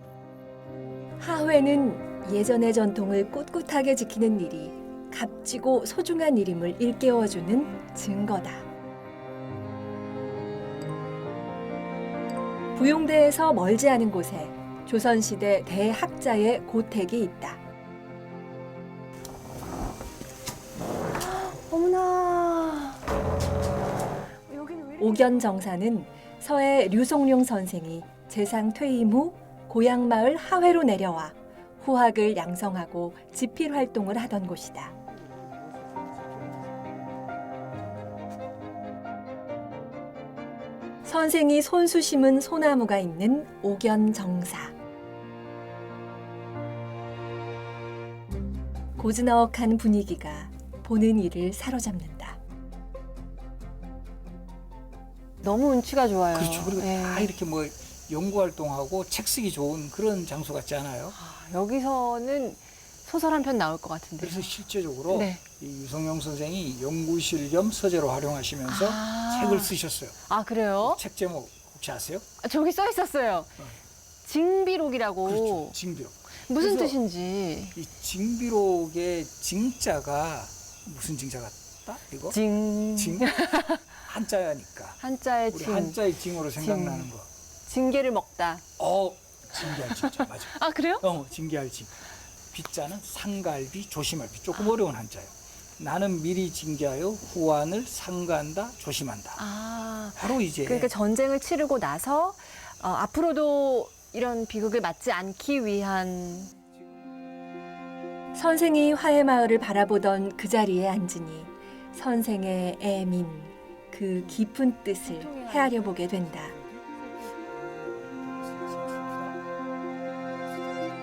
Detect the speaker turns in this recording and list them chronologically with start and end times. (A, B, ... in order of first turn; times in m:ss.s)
0:01.2-0:08.6 A
0:12.8-0:17.6 A
0:21.2-0:23.0 B
0:24.5-0:25.6 B
0:25.0-0:34.9 A
0:41.0-0:44.7 A
0:49.0-0:52.4 A
0:55.4-0:57.3 B
0:56.3-1:01.2 C
1:01.1-1:04.5 B
1:04.2-1:10.2 C
1:05.1-1:05.4 B
1:08.7-1:09.7 B
1:10.3-1:11.0 B
1:10.8-1:12.3 C
1:12.4-1:13.6 B
1:14.2-1:15.8 B
1:15.2-1:17.0 C
1:16.5-1:17.8 B
1:17.8-1:22.4 C
1:22.3-1:23.8 B
1:22.9-1:27.3 C
1:25.0-1:26.0 B
1:26.5-1:27.1 B
1:27.7-1:28.6 B
1:28.8-1:39.5 C
1:29.8-1:31.0 B
1:39.4-1:46.5 B
1:40.2-1:40.9 C
1:48.3-1:56.6 A
1:55.2-1:55.8 B
1:58.1-1:59.2 C